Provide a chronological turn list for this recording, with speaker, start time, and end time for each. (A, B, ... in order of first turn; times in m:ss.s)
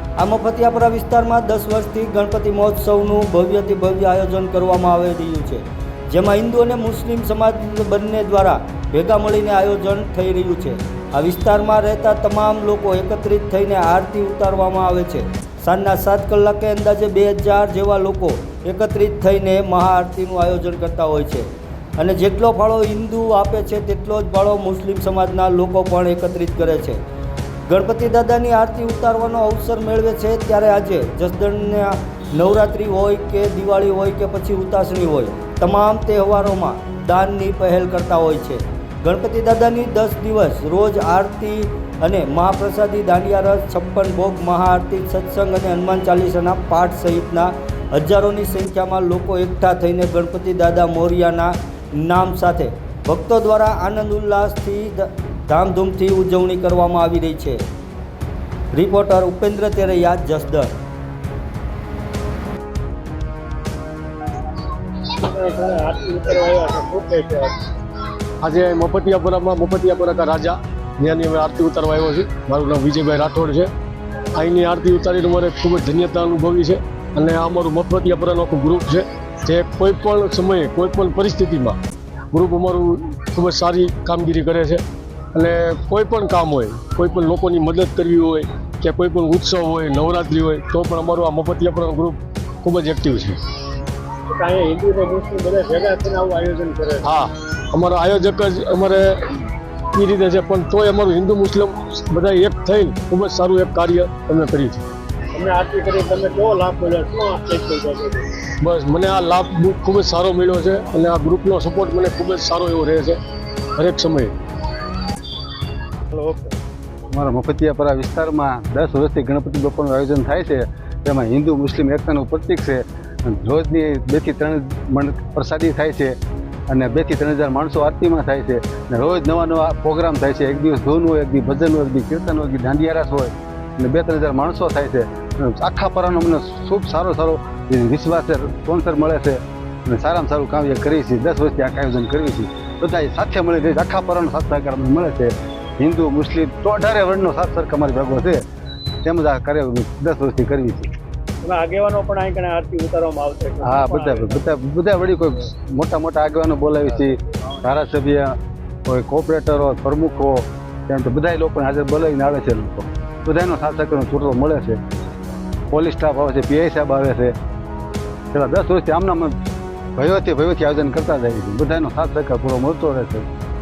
0:00.2-0:21.5 A
0:22.0-0:27.0 A
0:27.7-0:57.6 A
0:58.7-1:00.7 A
1:05.1-1:07.6 B
1:08.4-1:13.7 C
1:14.3-1:21.8 C
1:22.3-1:33.4 C
1:34.3-1:37.0 B
1:37.0-1:44.8 C
1:45.3-1:48.3 B
1:48.5-1:53.2 C
1:53.7-1:54.3 C
1:56.1-1:56.6 B
1:57.1-2:06.1 D
2:06.7-2:28.4 D
2:29.0-2:30.9 D
2:31.4-2:34.5 B
2:33.6-2:38.3 D
2:38.9-2:44.8 D
2:45.7-2:47.3 D
2:48.3-2:49.3 D
2:50.0-2:53.2 D